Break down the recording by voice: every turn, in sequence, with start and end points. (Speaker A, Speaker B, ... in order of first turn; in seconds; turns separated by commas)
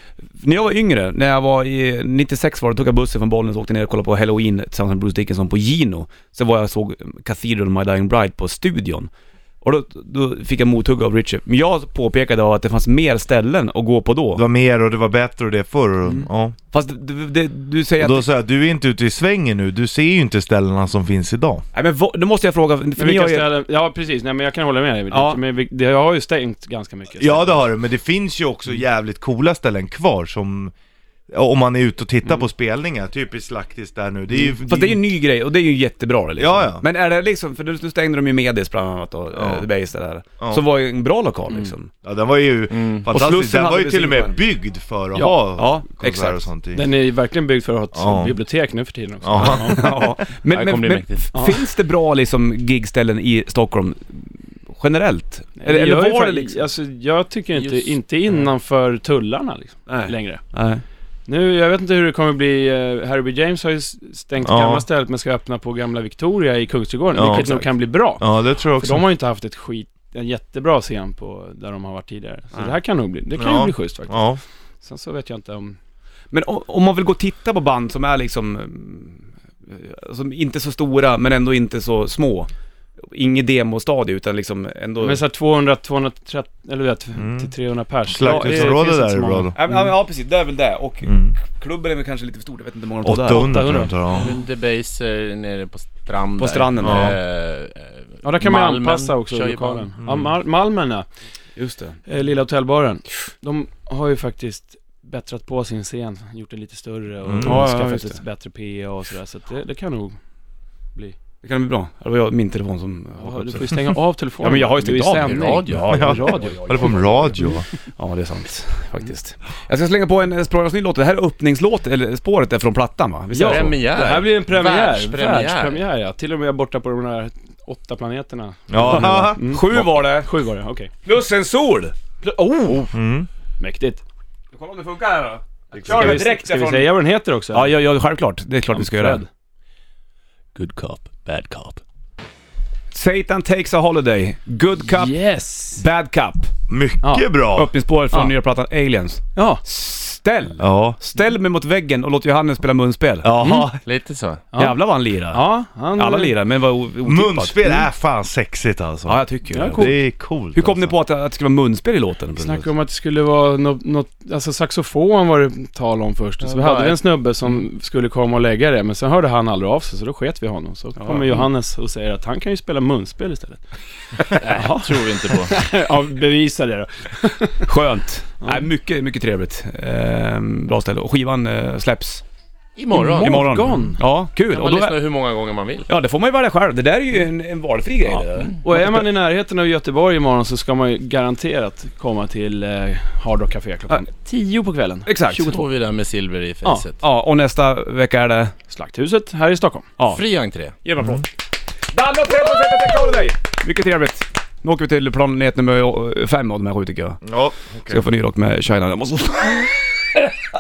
Speaker A: 0.4-9.1, Speaker A: 9.6-14.4, Speaker B: 14.3-16.6, Speaker A: 16.7-18.3, Speaker B: 18.0-21.6, Speaker A: 21.7-23.5, Speaker C: 23.0-27.6, Speaker A: 25.1-25.4, Speaker B: 27.2-30.7, Speaker B: 31.3-35.0, Speaker A: 34.5-41.9, Speaker B: 36.4-36.8, Speaker B: 39.3-39.7, Speaker B: 42.0-46.8, Speaker D: 42.7-43.1, Speaker A: 43.1-44.4, Speaker A: 45.2-46.4, Speaker C: 46.7-50.0, Speaker B: 47.9-48.4, Speaker B: 49.2-50.0, Speaker A: 49.4-56.6, Speaker D: 50.5-51.5, Speaker C: 51.3-51.6, Speaker C: 55.6-60.4, Speaker D: 57.5-58.0, Speaker A: 59.9-60.8, Speaker C: 61.3-74.3, Speaker B: 64.4-64.8, Speaker B: 67.1-67.7, Speaker B: 68.2-69.0, Speaker B: 73.3-74.4, Speaker C: 74.8-75.8, Speaker A: 76.3-82.5, Speaker A: 83.0-85.2, Speaker C: 85.0-89.8, Speaker B: 87.2-87.5, Speaker B: 88.0-89.6, Speaker A: 88.2-88.8, Speaker A: 89.5-93.5, Speaker B: 91.0-91.3, Speaker B: 93.0-94.3, Speaker C: 93.3-94.3, Speaker D: 94.1-99.9, Speaker A: 96.4-97.2, Speaker B: 96.8-97.2, Speaker C: 98.2-101.1, Speaker B: 100.0-100.3, Speaker A: 101.5-102.0, Speaker C: 102.1-110.2, Speaker B: 107.2-107.6, Speaker A: 107.4-108.2, Speaker A: 111.4-123.9, Speaker C: 113.2-117.5, Speaker D: 115.2-116.3, Speaker B: 115.9-117.7, Speaker C: 123.3-130.9, Speaker D: 123.4-125.8, Speaker B: 128.7-129.6, Speaker A: 128.8-130.3, Speaker A: 131.0-131.9, Speaker C: 132.2-132.9, Speaker B: 132.9-133.3, Speaker C: 133.6-134.0, Speaker A: 134.5-136.9, Speaker C: 135.8-137.7, Speaker A: 137.5-139.2, Speaker C: 138.7-139.3, Speaker D: 140.5-141.8, Speaker A: 142.9-145.2, Speaker C: 144.8-145.8, Speaker A: 145.8-146.5, Speaker B: 146.7-147.7, Speaker A: 147.5-153.3, Speaker C: 149.3-149.6, Speaker B: 150.6-151.0, Speaker B: 153.2-153.8, Speaker C: 153.4-153.7, Speaker D: 153.8-154.4, Speaker C: 154.5-154.8, Speaker A: 154.6-155.4, Speaker C: 155.3-156.3, Speaker A: 155.9-157.8, Speaker B: 157.1-160.9, Speaker A: 159.1-159.9, Speaker C: 159.5-159.9, Speaker A: 160.5-162.7, Speaker C: 162.4-173.6, Speaker D: 166.4-167.0, Speaker A: 171.0-171.4, Speaker C: 174.3-177.7, Speaker D: 174.3-175.6, Speaker A: 177.6-182.2, Speaker C: 178.4-178.7, Speaker D: 182.8-183.4, Speaker C: 182.9-184.0, Speaker A: 183.2-185.0, Speaker D: 184.5-185.9, Speaker A: 185.9-189.1, Speaker C: 188.1-195.6, Speaker A: 195.1-195.6, Speaker D: 195.3-197.0, Speaker A: 197.0-198.5, Speaker C: 198.7-199.9, Speaker A: 200.0-200.2, Speaker D: 200.0-200.8, Speaker A: 200.8-201.3, Speaker A: 201.9-207.2, Speaker B: 207.2-208.0, Speaker A: 207.9-210.2